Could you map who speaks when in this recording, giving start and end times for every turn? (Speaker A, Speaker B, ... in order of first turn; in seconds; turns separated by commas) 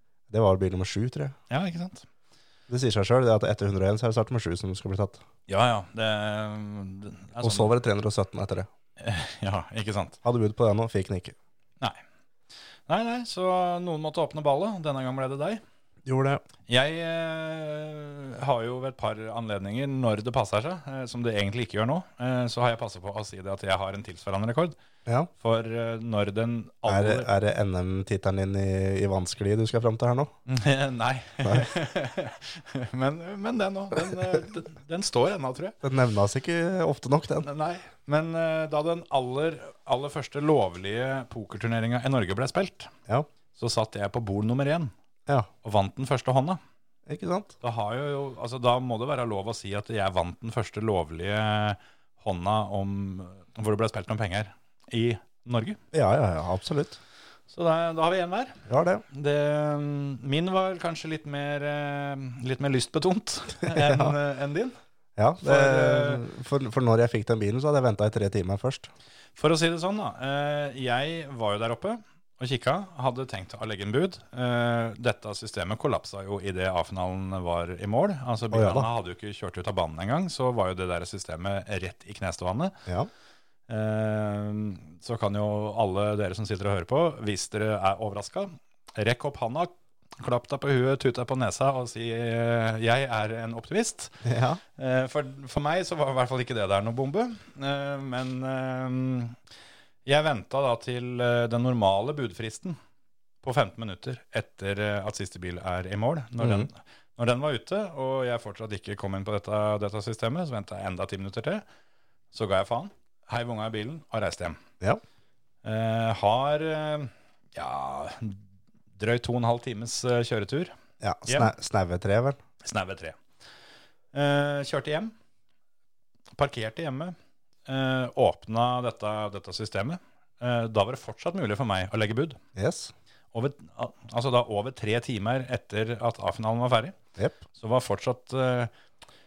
Speaker A: 0.3-1.3, Speaker B: 1.5-2.1, Speaker A: 2.7-5.2, Speaker B: 5.5-7.7, Speaker A: 7.4-8.7, Speaker B: 9.0-10.2, Speaker A: 10.2-11.3, Speaker B: 12.9-15.6, Speaker A: 16.0-16.4, Speaker B: 16.7-24.7, Speaker B: 25.4-27.3, Speaker A: 26.9-30.3, Speaker B: 30.4-35.8, Speaker A: 31.4-31.7, Speaker A: 35.8-37.5, Speaker B: 37.4-42.9, Speaker B: 43.5-44.9, Speaker B: 45.6-46.6, Speaker A: 47.1-47.5, Speaker B: 47.6-55.8, Speaker A: 55.9-57.0, Speaker B: 57.5-64.8, Speaker A: 58.7-59.0, Speaker A: 63.6-64.1, Speaker A: 65.2-68.9, Speaker B: 65.4-66.2, Speaker B: 69.4-82.8, Speaker A: 78.5-78.9, Speaker B: 83.7-94.2, Speaker A: 94.2-94.6, Speaker B: 94.8-99.4, Speaker B: 100.0-102.8, Speaker B: 103.4-111.6, Speaker A: 106.4-106.7, Speaker B: 112.3-114.6, Speaker B: 115.6-118.4, Speaker B: 119.0-120.7, Speaker A: 121.0-122.4, Speaker B: 121.2-121.5, Speaker B: 122.6-123.2, Speaker B: 124.1-125.1, Speaker B: 126.4-127.1, Speaker B: 127.7-132.4, Speaker A: 132.5-132.9, Speaker B: 133.3-137.0, Speaker B: 137.6-138.7